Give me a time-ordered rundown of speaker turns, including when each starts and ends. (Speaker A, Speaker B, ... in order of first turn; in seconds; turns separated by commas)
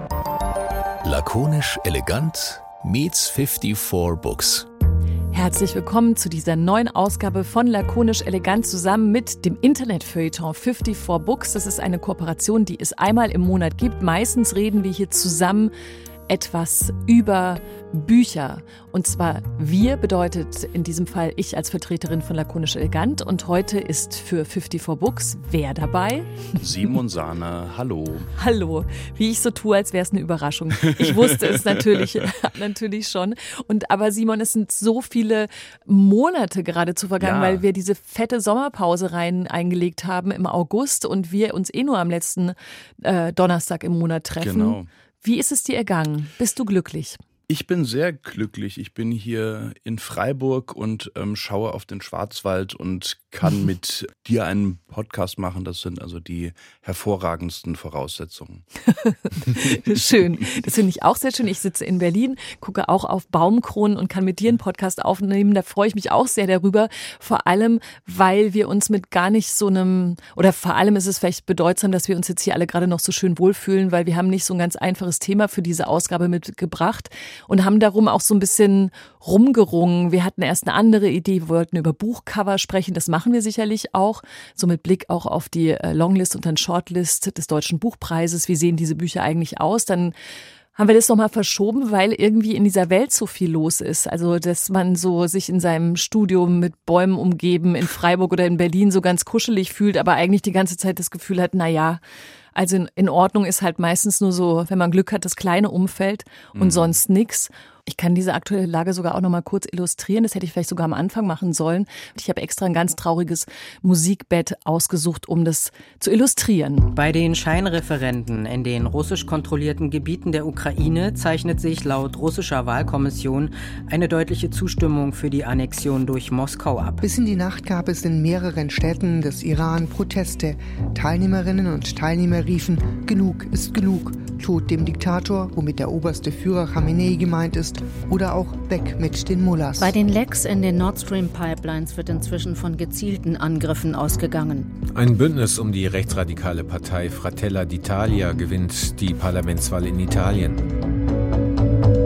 Speaker A: 1.0-4.7, Speaker B: 5.3-15.7, Speaker B: 16.3-26.3, Speaker C: 26.6-28.3, Speaker B: 28.4-47.2, Speaker C: 37.2-37.6, Speaker C: 44.3-44.9, Speaker C: 47.5-58.6, Speaker B: 58.9-90.1, Speaker C: 59.5-59.8, Speaker B: 90.7-102.0, Speaker B: 102.5-116.9, Speaker C: 106.5-107.0, Speaker D: 116.9-127.0, Speaker E: 127.0-140.0, Speaker F: 139.8-144.7, Speaker G: 144.9-150.7